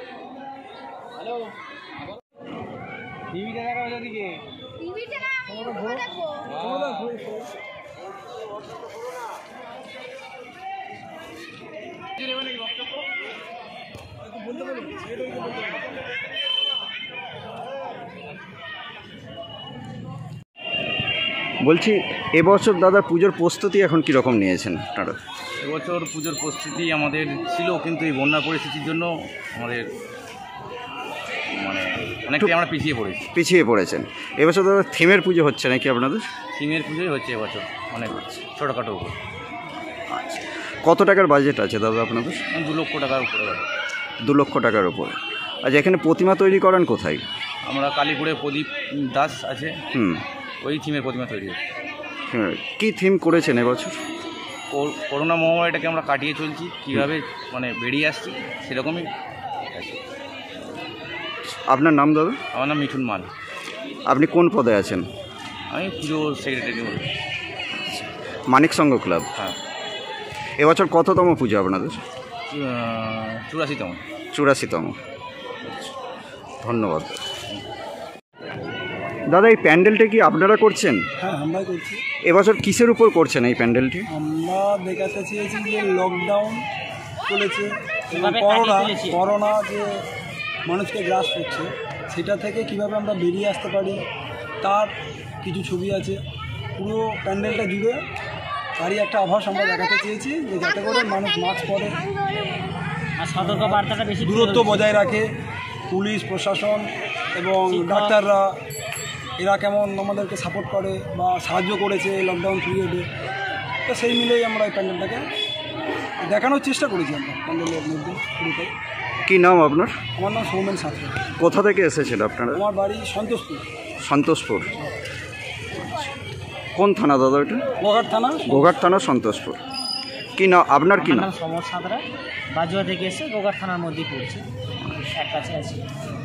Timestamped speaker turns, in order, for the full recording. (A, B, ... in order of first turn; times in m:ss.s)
0:03.7-0:03.9 A
0:14.5-0:15.5 B
0:21.6-0:25.2 C
0:25.6-0:29.8 A
0:31.5-0:33.3 A
0:33.3-0:36.2 C
0:36.5-0:39.1 A
0:38.1-0:38.4 C
0:40.1-0:42.4 C
0:42.5-0:43.7 A
0:44.2-0:47.2 C
0:47.6-0:49.7 A
0:49.9-0:50.2 C
0:50.6-0:51.6 A
0:52.3-0:54.0 C
0:54.7-0:59.1 A
0:59.7-1:00.0 A
1:01.5-1:02.4 C
1:02.5-1:03.3 A
1:04.1-1:05.0 C
1:05.7-1:07.1 A
1:07.7-1:09.3 C
1:10.6-1:12.0 C
1:12.5-1:14.0 A
1:14.3-1:15.0 C
1:16.6-1:17.2 C
1:19.3-1:21.0 C
1:21.2-1:22.0 B
1:22.2-1:24.1 C
1:24.1-1:26.6 B
1:27.3-1:29.9 B
1:28.1-1:29.2 D
1:30.7-1:34.0 B
1:34.6-1:36.2 B
1:36.8-1:38.0 B
1:38.8-1:42.0 B
1:43.2-1:44.9 D
1:43.4-1:45.3 B
1:45.9-1:48.6 B
1:47.7-1:48.2 D
1:49.4-1:53.0 B
1:53.8-1:55.2 B
1:56.2-1:58.7 B
1:59.2-2:00.0 C
2:00.2-2:01.2 B
2:01.4-2:02.6 C
2:02.5-2:03.6 B
2:04.0-2:04.7 C
2:06.7-2:07.6 C
2:07.8-2:08.7 B
2:08.5-2:09.6 C
2:10.4-2:11.3 C
2:10.9-2:14.4 D
2:14.8-2:15.1 C
2:15.1-2:15.8 D